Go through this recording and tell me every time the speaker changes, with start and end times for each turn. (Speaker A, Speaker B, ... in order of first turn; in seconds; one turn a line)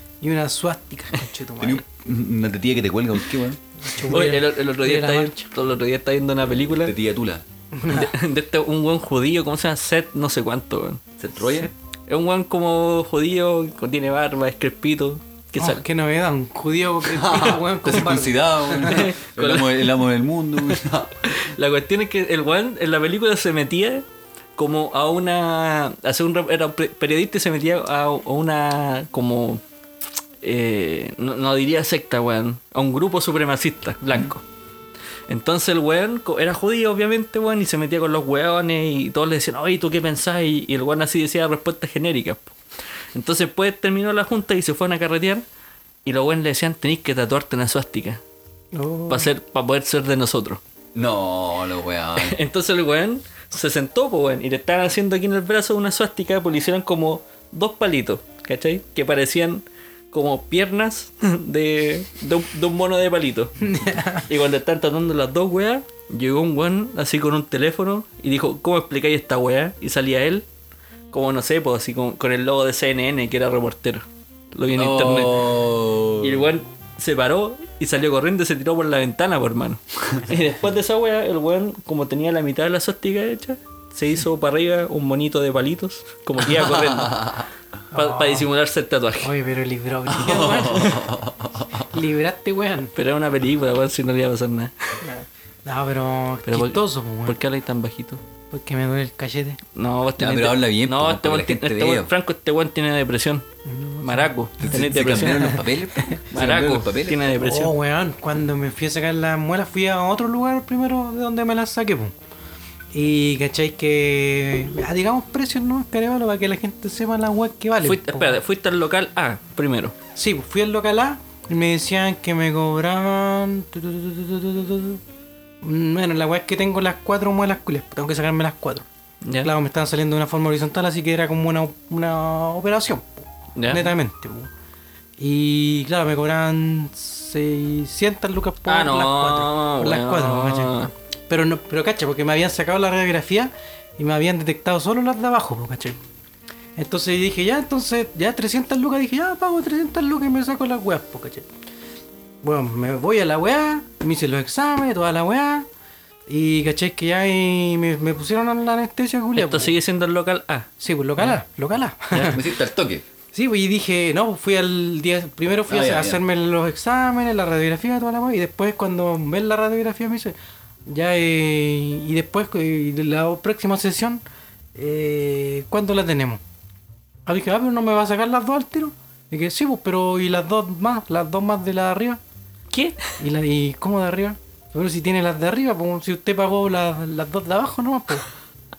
Speaker A: 0.2-1.8
Speaker B: 1.6-3.6
Speaker A: 3.8-5.5
Speaker C: 4.1-6.9
Speaker B: 6.8-7.4
Speaker A: 7.7-8.1
Speaker C: 7.9-11.0
Speaker B: 11.2-11.7
Speaker C: 12.1-15.8
Speaker A: 15.6-19.1
Speaker B: 17.1-21.1
Speaker C: 18.8-19.9
Speaker C: 21.2-24.0
Speaker C: 24.6-29.6
Speaker C: 30.4-34.4
Speaker C: 35.3-42.5
Speaker C: 43.1-45.4
Speaker C: 46.0-48.2
Speaker A: 48.7-49.3
Speaker C: 49.1-50.6
Speaker B: 50.9-52.3
Speaker C: 52.2-63.5
Speaker A: 63.6-64.3
Speaker C: 64.3-70.4
Speaker C: 71.1-75.5
Speaker B: 74.7-76.5
Speaker C: 76.2-87.4
Speaker B: 86.5-87.4
Speaker A: 87.9-88.5
Speaker C: 87.9-89.3
Speaker A: 89.2-91.0
Speaker B: 90.1-91.8
Speaker A: 91.9-92.9
Speaker C: 93.0-94.7
Speaker A: 95.0-97.4
Speaker C: 96.5-98.2
Speaker A: 98.5-99.6
Speaker C: 99.7-103.4
Speaker B: 100.2-102.1
Speaker A: 103.7-106.2
Speaker C: 104.0-105.6
Speaker B: 104.6-107.2
Speaker C: 106.3-107.7
Speaker A: 107.4-112.1
Speaker A: 112.9-118.4
Speaker C: 117.8-119.9
Speaker A: 120.2-125.0
Speaker A: 125.6-128.8
Speaker A: 129.4-134.5
Speaker C: 133.6-133.9
Speaker A: 135.2-146.0
Speaker C: 138.7-140.9
Speaker A: 146.8-151.5
Speaker A: 152.4-155.7
Speaker A: 156.3-159.7
Speaker C: 159.3-160.7
Speaker A: 160.8-162.4
Speaker B: 162.3-163.0
Speaker A: 163.3-170.3
Speaker B: 165.7-166.2
Speaker A: 170.9-174.2
Speaker A: 174.8-176.4
Speaker A: 177.2-182.2
Speaker C: 182.7-183.0
Speaker A: 183.2-188.2